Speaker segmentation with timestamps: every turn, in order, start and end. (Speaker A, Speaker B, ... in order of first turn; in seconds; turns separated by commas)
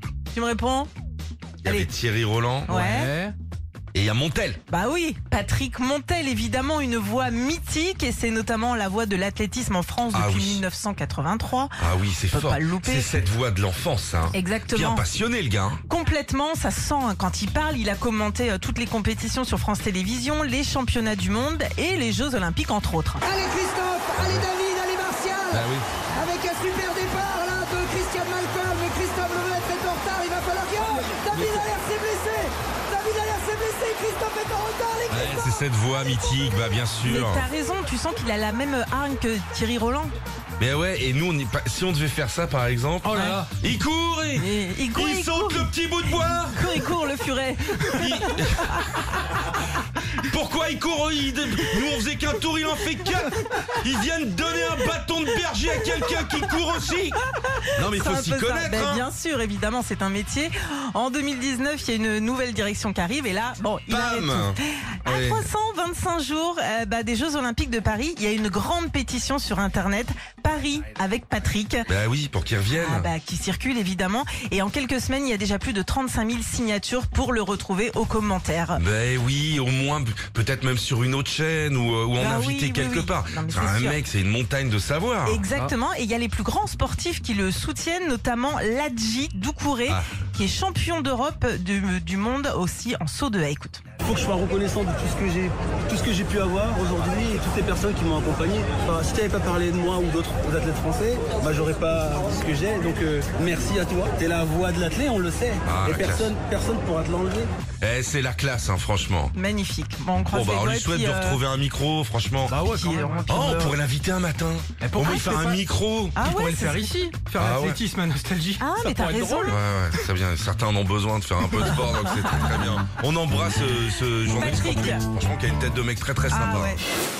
Speaker A: 0.3-0.9, Speaker B: 1.6-2.7, Speaker A: 2.6-3.1, Speaker C: 2.7-3.3, Speaker B: 3.9-4.6, Speaker A: 4.7-11.8, Speaker B: 10.1-10.6, Speaker B: 11.8-15.8, Speaker A: 12.3-13.2, Speaker A: 14.3-15.1, Speaker A: 15.9-23.2, Speaker D: 23.3-25.5, Speaker B: 24.1-24.5, Speaker B: 25.5-25.9, Speaker D: 26.2-26.8, Speaker D: 27.5-28.7, Speaker D: 29.8-31.8, Speaker B: 31.3-31.6, Speaker D: 33.0-35.5, Speaker B: 35.1-37.5, Speaker A: 37.0-40.1, Speaker B: 40.6-46.6, Speaker C: 43.0-43.6, Speaker A: 43.1-43.4, Speaker A: 44.4-45.7, Speaker A: 46.3-49.0, Speaker B: 47.8-49.5, Speaker B: 50.1-57.2, Speaker A: 57.2-71.9, Speaker B: 57.7-59.0, Speaker B: 63.9-65.5, Speaker B: 71.9-73.1, Speaker A: 72.7-78.8, Speaker B: 78.8-85.4, Speaker A: 82.2-84.0, Speaker A: 85.2-93.8, Speaker E: 94.0-107.5, Speaker B: 105.7-106.3, Speaker B: 107.8-109.3, Speaker A: 109.3-111.4, Speaker B: 110.3-112.7, Speaker C: 112.5-113.7, Speaker A: 112.6-113.7, Speaker B: 113.3-116.2, Speaker C: 114.8-115.6, Speaker A: 116.1-117.2, Speaker C: 116.2-119.5, Speaker B: 117.3-117.8, Speaker A: 118.6-119.6, Speaker B: 119.5-126.8, Speaker A: 124.2-125.0, Speaker A: 126.3-126.8